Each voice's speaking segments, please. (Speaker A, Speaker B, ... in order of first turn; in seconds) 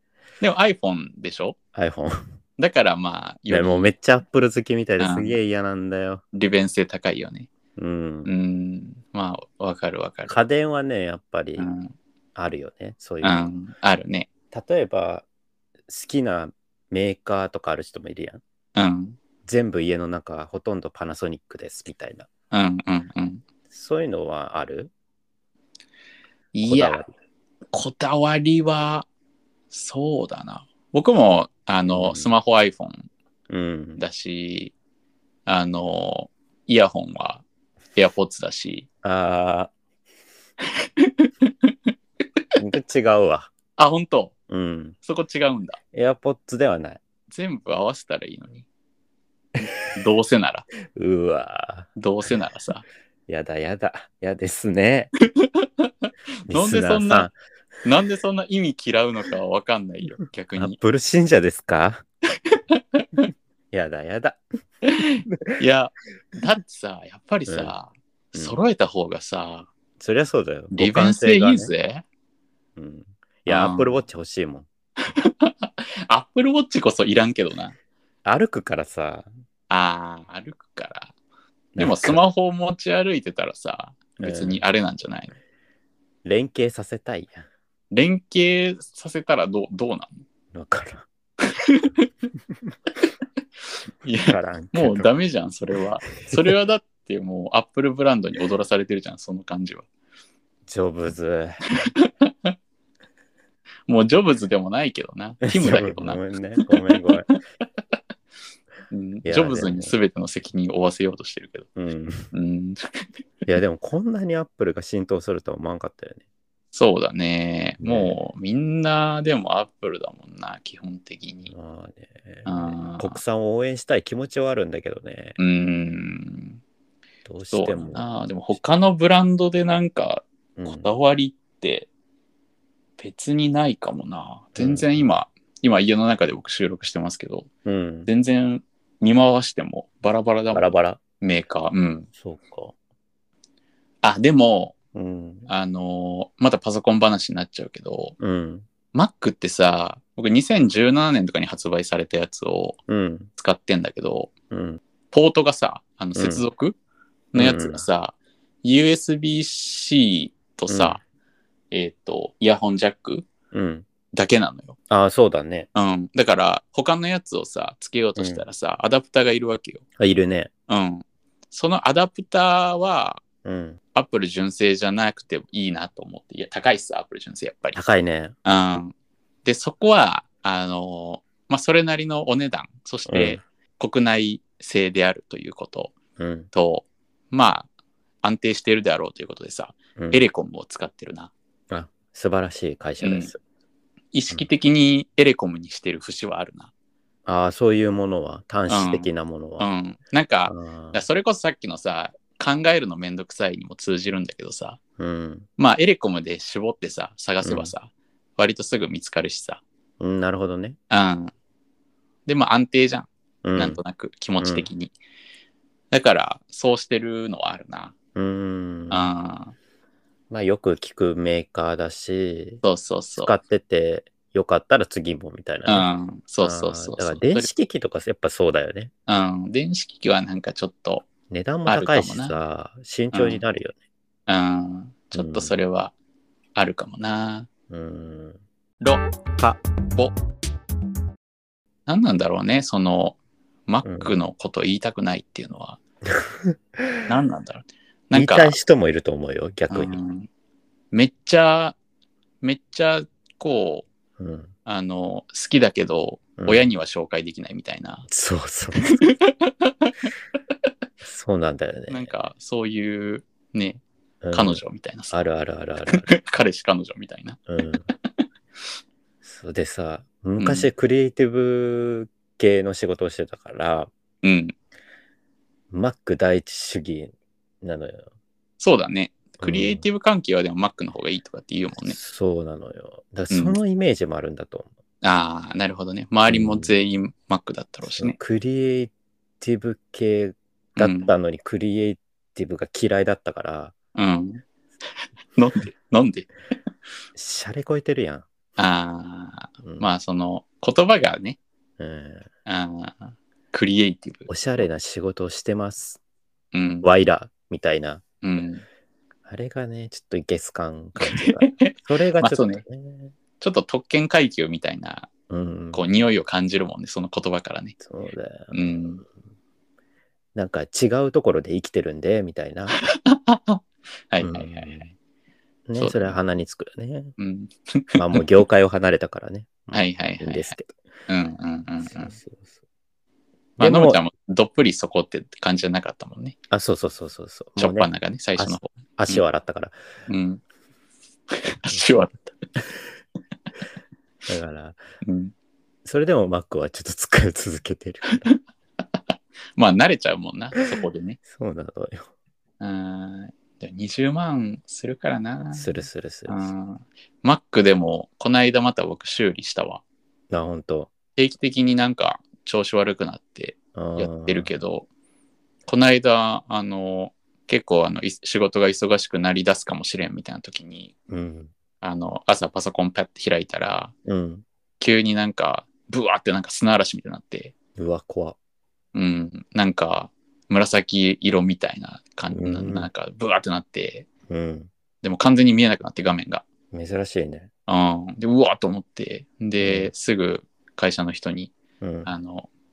Speaker A: 0.4-1.6, 2.6-3.9, 5.0-5.4, 6.3-7.5, 8.2-10.4, 11.6-11.9, 13.2-14.3, 18.8-19.2, 22.5-23.4, 26.5-27.0, 27.7-29.1, 29.7-33.1, 34.0-34.7, 35.5-37.4, 38.0-38.9, 41.0-41.7, 43.8-44.3, 45.0-45.8, 47.3-48.7, 49.6-50.7, 52.0-52.8, 56.5-57.3, 57.8-60.8, 62.7-63.2, 64.8-69.7, 70.7-72.0, 73.5-74.0, 75.1-77.8, 79.7-81.1, 81.8-85.4, 87.9-90.2, 91.5-92.1, 94.0-99.9, 101.8-102.5, 103.9-107.3, 108.9-111.7, 112.3-113.1, 116.7-121.5, 122.5-123.2, 125.4-126.6, 127.5-131.9, 133.0-137.5, 138.1-142.1, 144.0-144.8, 145.5-148.2, 148.9-152.8, 153.4-154.3, 155.1-156.8, 157.3-161.0, 161.7-163.3, 164.1-164.8, 165.8-169.8, 170.7-173.2, 173.9-177.8, 178.4-178.9, 179.4-185.9, 186.5-187.7, 188.2-191.3, 193.0-193.3, 194.1-196.7, 198.7-204.8, 205.6-209.6, 210.9-211.3, 212.3-214.9, 215.9-217.9, 218.9-219.6, 222.6-223.3, 225.7-227.5, 229.1-231.1, 231.7-232.3, 233.1-233.4, 234.3-235.9, 236.6-237.5, 241.9-245.8, 247.1-248.6, 249.7-250.3, 250.9-251.8, 252.4-253.9, 254.7-258.1, 258.9-259.3, 261.9-265.2, 265.9-267.4, 270.4-270.7, 274.2-274.5, 278.6-282.0, 283.3-283.6, 285.0-288.2, 290.8-291.1, 294.0-294.4, 295.4-296.3, 298.6-301.4, 302.5-304.3, 306.5-306.9, 308.2-308.6, 311.0-312.6, 313.4-315.1, 315.7-317.8, 318.5-319.0, 322.9-324.9, 325.8-326.2, 327.2-328.2, 329.7-330.6, 331.1-332.1, 333.6-336.4, 337.6-339.2, 340.1-340.4, 341.3-342.4, 345.0-345.3, 349.6-351.2, 352.6-355.7, 356.3-359.8, 361.2-364.9, 365.7-370.9, 371.8-373.9, 374.8-377.5, 378.9-384.1, 385.0-386.4, 387.7-391.5, 392.1-392.5
Speaker B: 1.7-2.3, 3.5-6.2, 7.8-8.3, 10.3-11.7, 12.3-13.5, 14.5-15.2, 15.9-18.4, 19.5-22.3, 23.7-24.9, 26.7-27.1, 31.9-32.3, 33.5-34.0, 39.0-39.7, 42.6-43.5, 44.5-45.0, 45.9-47.0, 50.9-51.9, 53.3-55.1, 56.5-57.4, 60.6-62.0, 63.7-64.4, 67.5-67.7, 70.0-71.7, 72.8-74.7, 78.2-79.3, 81.8-82.2, 84.2-84.6, 86.2-87.5, 90.5-91.1, 94.2-95.1, 96.3-96.5, 100.7-101.6, 105.5-107.3, 109.2-110.0, 111.8-112.3, 113.5-116.2, 117.8-118.2, 121.5-125.4, 127.2-128.6, 130.6-130.9, 134.6-134.9, 137.7-138.1, 140.5-141.0, 142.2-142.8, 144.9-145.5, 148.2-148.7, 152.9-153.3, 154.5-154.8, 156.2-156.4, 157.3-157.8, 160.7-161.0, 163.5-163.9, 164.9-165.7, 168.2-168.4, 170.0-170.5, 173.4-173.8, 177.7-178.3, 183.1-183.4, 186.2-186.5, 190.0-190.2, 191.7-193.4, 197.3-199.7, 200.5-201.0, 205.0-205.5, 207.4-207.7, 210.0-210.8, 213.4-213.8, 214.4-214.7, 218.2-219.1, 220.3-222.6, 223.2-225.9, 226.4-228.9, 231.3-233.8, 235.1-235.5, 237.7-238.4, 243.8-244.1, 246.2-247.0, 248.1-250.0, 254.2-254.5, 256.4-256.6, 258.1-259.0, 261.0-262.1, 264.2-266.1, 267.5-267.9, 269.2-273.9, 275.7-278.1, 279.4-279.8, 281.8-284.7, 286.3-286.7, 287.9-293.7, 297.1-298.3, 299.6-299.9, 301.8-302.3, 304.3-306.0, 306.8-308.0, 309.3-313.1, 315.3-315.8, 317.8-319.1, 320.4-322.8, 324.2-324.9, 325.7-327.1, 327.9-330.8, 331.9-332.5, 333.6-334.0, 336.5-339.8, 344.3-344.8, 345.9-348.3, 351.3-352.1, 355.5-356.5, 360.3-360.9, 363.8-364.5, 371.1-371.5, 374.1-374.4, 377.8-378.4, 382.3-382.9, 384.3-384.7, 386.7-387.5, 389.6-389.9, 391.8-392.1